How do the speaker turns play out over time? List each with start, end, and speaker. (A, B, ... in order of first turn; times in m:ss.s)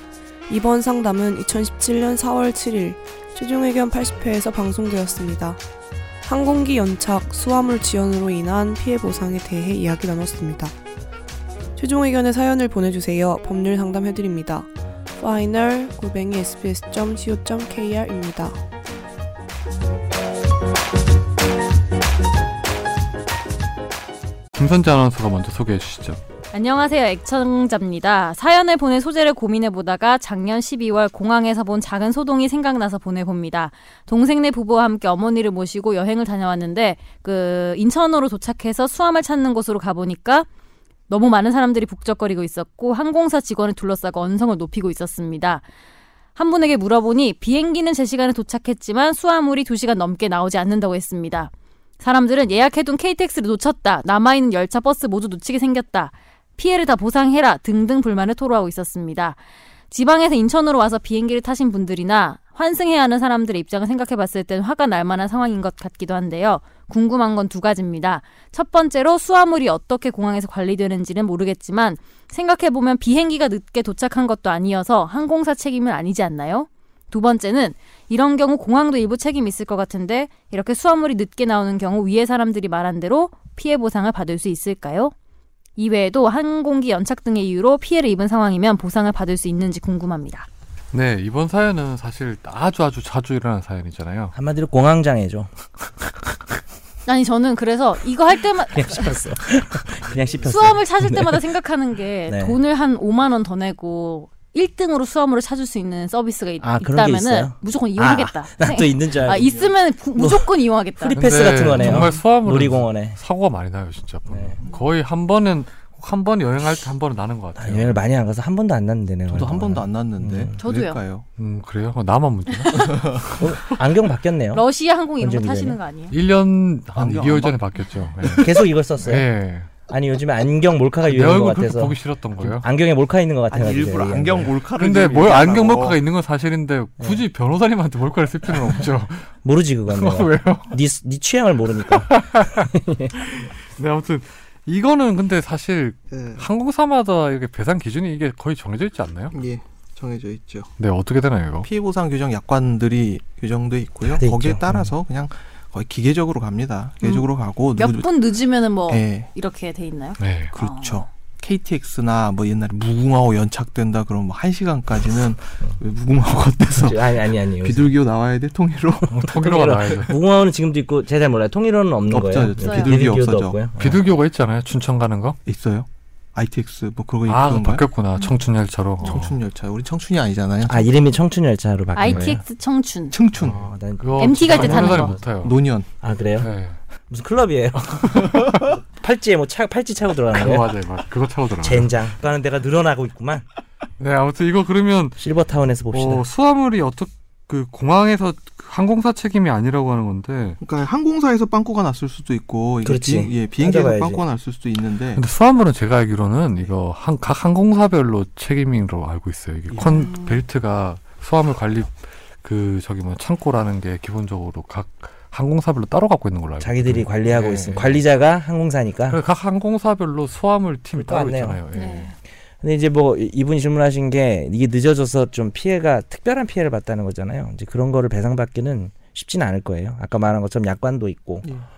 0:00.5-0:05.6 A
0:06.2-0:10.8 A
0:11.8-0:18.6 A
0:24.5-0:26.2 B
0:26.5-0:40.5 C
0:41.1-0:45.6 C
0:46.4-1:25.1 C
1:25.8-1:30.5 C
1:30.9-1:34.3 B
1:34.3-1:35.5 D
1:37.1-1:39.2 C
1:38.7-1:41.4 D
1:40.4-1:51.2 C
1:42.3-1:42.6 D
1:46.6-1:49.6 D
1:50.2-1:53.2 D
1:51.1-1:58.0 B
1:54.3-1:54.6 D
1:57.6-2:00.6 D
1:59.3-2:01.3 E
2:00.6-2:01.0 C
2:01.4-2:03.7 B
2:03.3-2:04.7 D
2:04.5-2:06.2 C
2:05.2-2:05.8 D
2:06.1-2:09.7 B
2:06.9-2:07.6 E
2:08.3-2:09.3 D
2:09.9-2:14.5 D
2:11.0-2:12.6 B
2:13.5-2:16.0 E
2:14.8-2:19.3 B
2:19.4-2:23.2 D
2:19.9-2:20.8 B
2:21.9-2:22.7 B
2:23.3-2:29.4 B
2:26.1-2:26.4 E
2:29.3-2:30.7 E
2:30.8-2:31.7 B
2:31.6-2:38.1 E
2:34.0-2:34.9 D
2:37.0-2:41.1 C
2:38.9-2:39.3 E
2:40.2-2:40.6 B
2:40.6-2:49.2 E
2:46.7-2:47.9 D
2:49.1-2:54.0 D
2:49.1-2:50.1 B
2:52.1-2:53.6 E
2:52.6-2:53.0 C
2:53.8-2:55.4 B
2:55.5-2:57.9 E
2:57.2-2:59.4 B
2:58.2-2:58.4 C
2:59.0-3:00.9 E
3:00.7-3:02.4 D
3:01.9-3:03.2 C
3:03.1-3:03.6 E
3:03.4-3:05.2 D
3:03.4-3:05.6 B
3:04.2-3:05.2 C
3:05.4-3:05.9 E
3:06.0-3:06.5 D
3:06.4-3:06.8 B
3:07.1-3:10.8 D
3:08.0-3:08.7 B
3:10.3-3:12.0 B
3:11.6-3:13.4 D
3:14.0-3:15.2 B
3:15.2-3:16.3 D
3:15.9-3:20.6 B
3:20.6-3:25.2 E
3:22.8-3:24.2 D
3:25.1-3:38.0 B
3:29.8-3:30.4 C
3:36.6-3:39.2 D
3:39.1-3:42.2 B
3:41.0-3:41.6 D
3:41.7-3:42.1 C
3:42.6-3:51.5 D